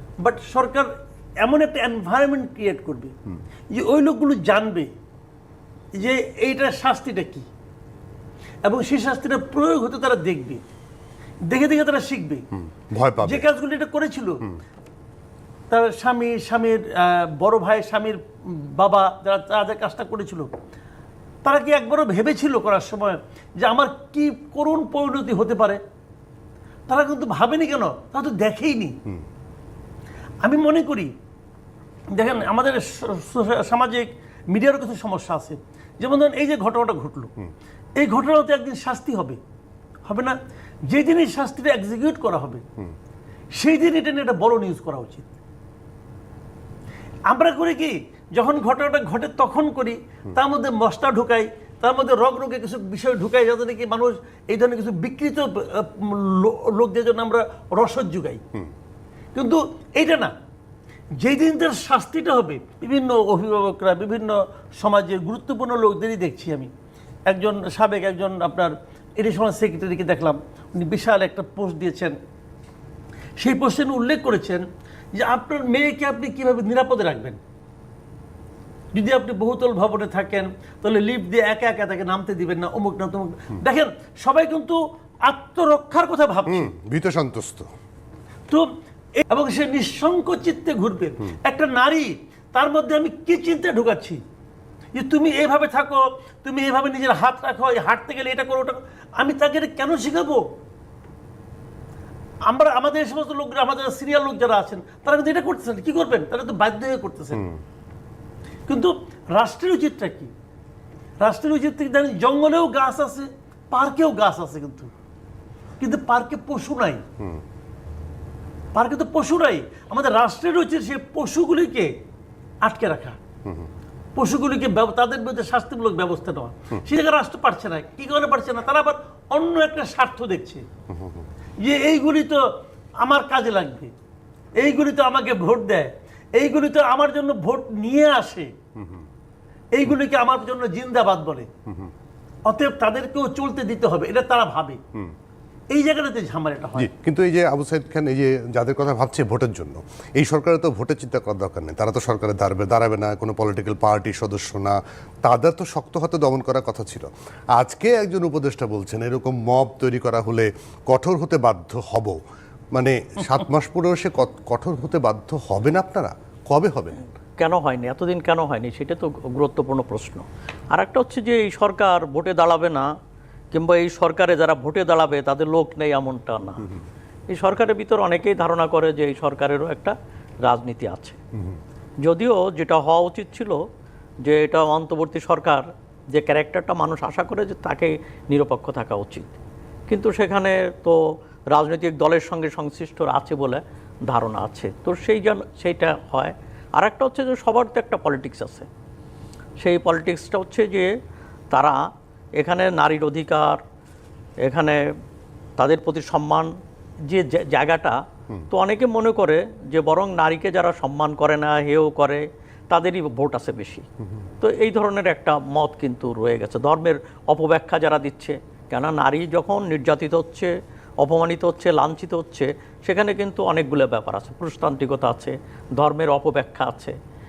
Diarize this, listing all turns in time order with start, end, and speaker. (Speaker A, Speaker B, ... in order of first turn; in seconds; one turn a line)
Speaker A: 0.2-0.9
Speaker A: 1.4-3.1
Speaker A: 3.7-4.9
Speaker A: 6.0-7.5
Speaker A: 8.6-10.6
Speaker A: 11.5-12.4
Speaker B: 12.8-13.5
Speaker A: 13.2-14.4
Speaker A: 15.7-20.5
Speaker A: 21.4-25.8
Speaker A: 26.9-28.9
Speaker A: 30.4-31.1
Speaker A: 32.1-37.3
Speaker A: 38.0-39.4
Speaker A: 40.1-40.4
Speaker A: 40.9-42.6
Speaker A: 43.6-45.3
Speaker A: 47.3-58.4
Speaker A: 59.4-60.3
Speaker A: 61.2-66.7
Speaker A: 67.3-72.2
Speaker A: 73.4-74.7
Speaker A: 75.2-77.4
Speaker A: 78.9-86.7
Speaker B: 86.5-87.7
Speaker A: 89.3-94.2
Speaker A: 95.0-100.4
Speaker A: 102.5-107.5
Speaker A: 108.7-110.3
Speaker A: 111.2-114.9
Speaker A: 115.8-117.0
Speaker A: 118.7-121.9
Speaker A: 122.6-123.2
Speaker A: 124.2-130.6
Speaker B: 130.9-131.2
Speaker A: 131.6-132.4
Speaker A: 133.0-133.9
Speaker A: 134.6-138.5
Speaker A: 139.8-141.5
Speaker A: 142.5-144.8
Speaker A: 145.7-146.9
Speaker B: 146.8-162.2
Speaker B: 162.8-167.0
Speaker C: 167.4-172.9
Speaker C: 173.5-176.7
Speaker C: 177.3-181.2
Speaker C: 182.0-183.6
Speaker C: 184.2-189.3
Speaker C: 189.9-191.0
Speaker C: 191.5-198.7
Speaker C: 199.6-200.9
Speaker C: 201.5-201.8
Speaker C: 202.4-203.6
Speaker C: 204.4-204.8
Speaker C: 205.6-206.5
Speaker C: 207.1-208.0
Speaker C: 208.5-213.9
Speaker C: 214.4-220.5
Speaker C: 221.0-227.0